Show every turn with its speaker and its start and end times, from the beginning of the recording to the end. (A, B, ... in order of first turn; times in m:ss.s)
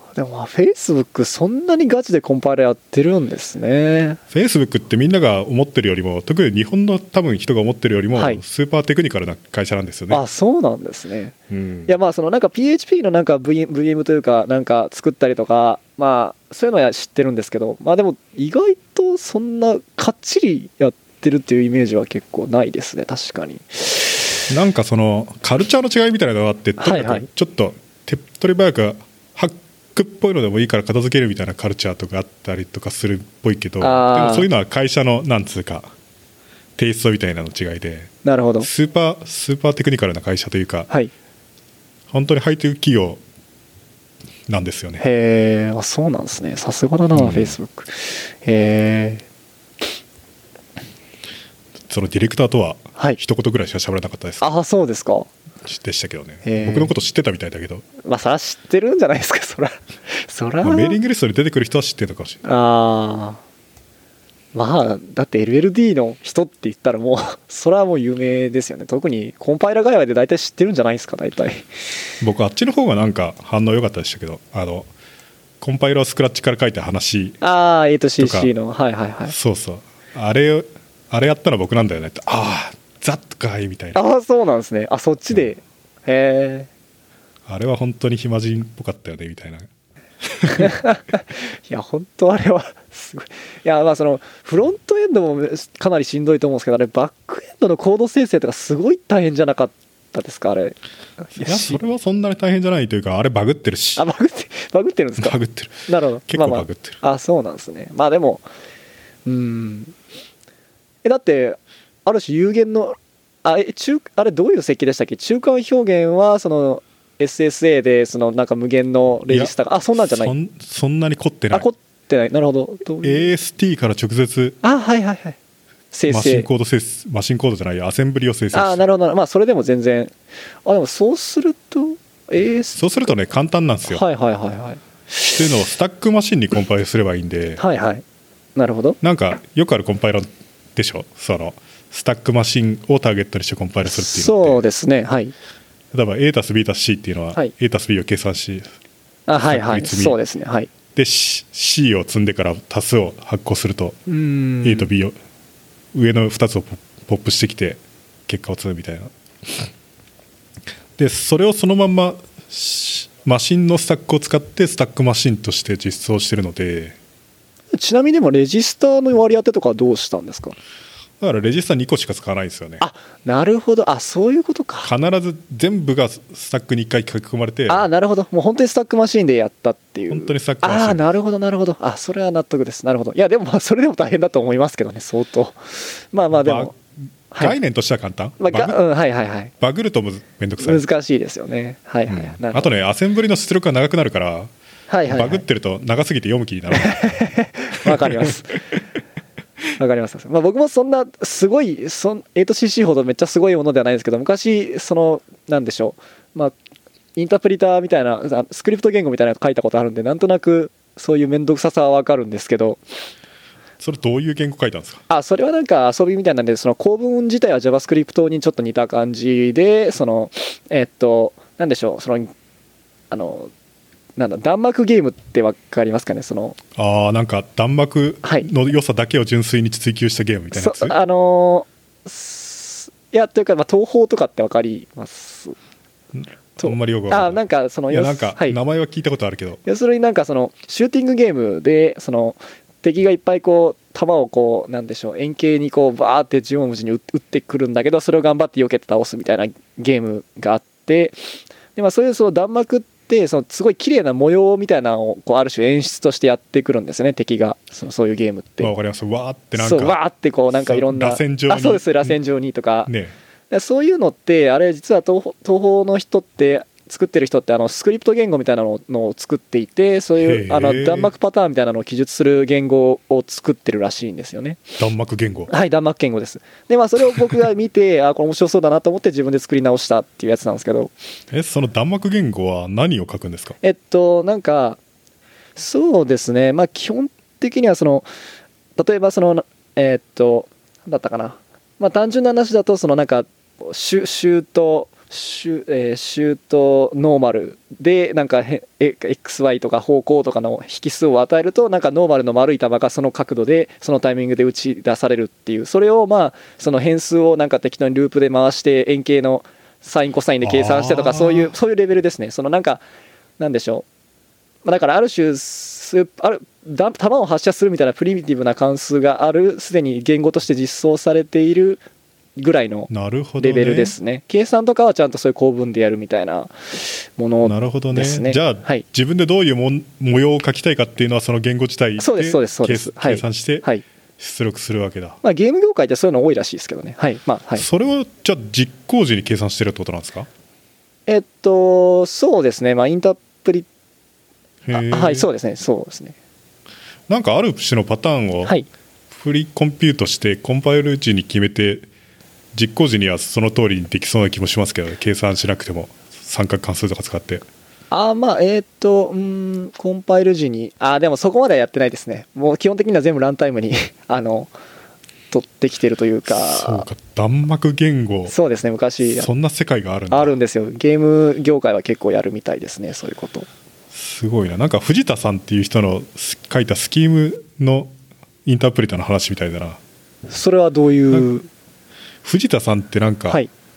0:00.1-0:04.2 A
0:04.3-0:10.2 B
0:08.1-0:08.4 A
0:10.1-0:11.4 A
0:11.5-0:11.9 B
0:11.9-0:24.3 A
0:24.5-0:35.9 B
0:26.8-0:27.2 A
0:33.8-0:34.5 A
0:36.8-0:40.9 B
0:38.2-0:38.7 A
0:42.1-0:43.2 B
0:44.5-0:45.0 B
0:45.0-0:49.2 A
0:47.1-0:47.6 B
0:51.9-0:54.5 B
0:54.4-0:55.3 A
0:55.6-0:57.8 B
0:56.4-0:56.9 A
0:58.0-1:01.0 A
1:00.6-1:02.4 B
1:02.4-1:03.4 A
1:04.5-1:11.7 A
1:12.2-1:14.9 B
1:15.6-1:17.4 B
1:17.4-1:19.3 A
1:18.2-1:18.5 B
1:19.2-1:24.0 B
1:23.9-1:26.7 A
1:27.5-1:29.7 B
1:30.2-1:30.7 B
1:30.5-1:41.8 A
1:41.4-1:44.0 B
1:44.0-1:48.4 A
1:45.2-1:47.0 B
1:49.2-1:49.9 A
1:51.0-2:00.3 A
1:59.3-2:01.6 B
2:01.5-2:03.3 A
2:03.0-2:04.6 B
2:04.6-2:05.4 A
2:05.9-2:06.5 A
2:06.1-2:08.8 B
2:08.5-2:12.8 A
2:12.7-2:14.0 B
2:13.9-2:14.8 A
2:15.2-2:17.6 B
2:17.6-2:18.0 A
2:18.6-2:19.0 A
2:19.0-2:24.6 B
2:23.8-2:25.3 A
2:25.9-2:28.7 B
2:29.3-2:30.7 A
2:29.4-2:30.2 B
2:30.9-2:34.0 B
2:34.1-2:34.9 A
2:34.6-2:35.1 B
2:35.9-2:39.7 B
2:41.0-2:47.0 B
2:47.7-2:50.6 A
2:51.2-2:52.8 B
2:52.8-2:54.9 A
2:54.8-2:57.9 B
2:57.7-3:06.7 A
3:00.1-3:01.1 B
3:06.3-3:08.8 B
3:07.3-3:07.6 A
3:08.4-3:09.5 A
3:09.6-3:10.8 B
3:10.6-3:12.7 A
3:12.1-3:14.5 B
3:14.9-3:15.4 A
3:15.1-3:17.2 B
3:16.7-3:18.6 A
3:17.8-3:18.3 B
3:19.8-3:26.5 A
3:27.2-3:32.8 A
3:33.8-3:35.0 B
3:35.1-3:42.3 A
3:43.1-3:43.5 A
3:44.2-3:46.6 A
3:46.8-3:50.9 B
3:50.5-3:55.6 A
3:56.1-3:59.6 B
3:56.6-3:58.6 A
3:59.6-4:18.7 A
4:18.6-4:20.0 B
4:19.6-4:22.9 A
4:20.5-4:22.2 B
4:22.9-4:23.1 B
4:23.5-4:34.6 A
4:30.2-4:31.1 B
4:34.8-4:35.5 B
4:35.5-4:40.9 A
4:41.3-4:43.6 B
4:43.6-4:44.8 A
4:45.6-4:48.1 A
4:48.8-5:12.8 A
5:10.4-5:11.5 B
5:13.4-5:13.8 A
5:14.6-5:21.8 A
5:22.4-5:22.9 A
5:22.9-5:24.0 B
5:23.4-5:28.8 A
5:27.4-5:33.7 B
5:32.0-5:33.8 A
5:34.2-5:35.2 B
5:35.2-5:37.6 A
5:37.6-5:40.3 B
5:41.1-5:43.7 A
5:44.6-5:45.3 B
5:44.7-5:46.1 A
5:47.1-5:48.5 B
5:49.1-5:51.9 B
5:52.5-5:57.4 B
5:57.9-6:04.5 A
6:05.3-6:06.9 A
6:06.3-6:08.3 B
6:08.3-6:09.3 A
6:09.0-6:10.4 B
6:10.1-6:13.5 A
6:13.9-6:17.9 B
6:18.4-6:19.8 B
6:20.3-6:21.5 A
6:22.2-6:23.4 B